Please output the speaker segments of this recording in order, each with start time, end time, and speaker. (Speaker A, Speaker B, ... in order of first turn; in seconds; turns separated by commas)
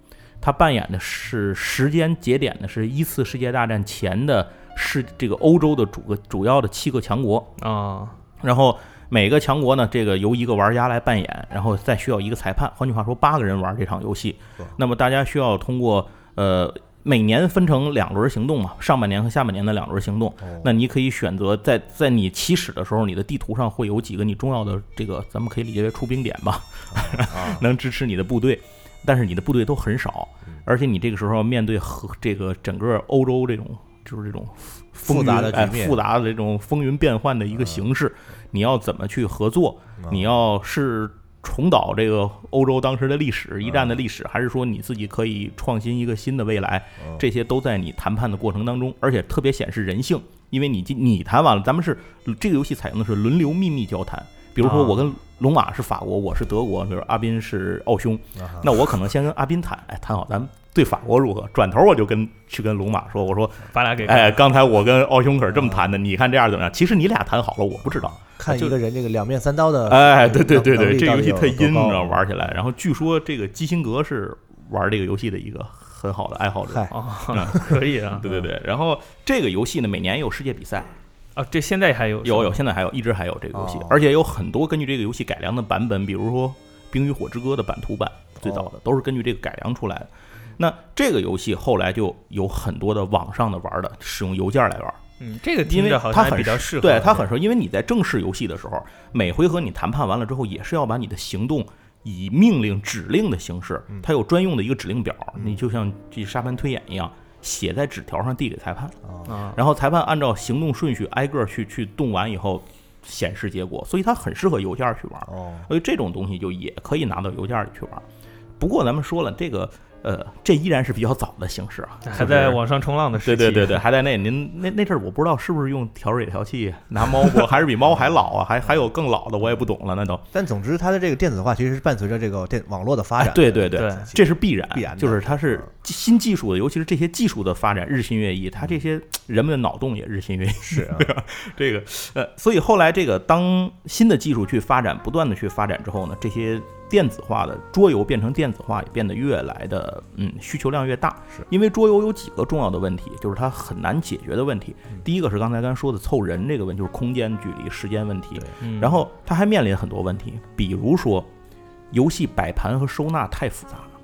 Speaker A: 0.4-7.5, Speaker B: 7.6-8.2, Speaker A: 8.4-68.8, Speaker C: 20.4-20.7, Speaker C: 26.9-27.6, Speaker C: 35.0-36.0, Speaker C: 40.0-40.2, Speaker C: 43.6-44.0, Speaker B: 54.6-55.0, Speaker C: 58.4-58.7, Speaker B: 63.7-64.4, Speaker C: 65.5-65.8, Speaker C: 67.8-72.6, Speaker A: 69.9-80.9, Speaker B: 76.9-78.3, Speaker C: 77.5-78.5, Speaker B: 81.4-82.6, Speaker A: 82.2-95.0, Speaker C: 83.5-84.0, Speaker B: 95.2-97.3, Speaker A: 95.6-109.0, Speaker C: 105.3-105.6, Speaker C: 109.1-109.3, Speaker B: 109.3-109.6, Speaker A: 109.5-118.0, Speaker C: 115.3-115.7, Speaker A: 118.6-122.6, Speaker B: 122.0-123.8, Speaker A: 123.2-130.2, Speaker C: 130.3-135.7, Speaker A: 133.2-161.3, Speaker B: 133.8-134.1, Speaker C: 140.7-141.1, Speaker B: 158.6-159.0, Speaker A: 161.9-163.9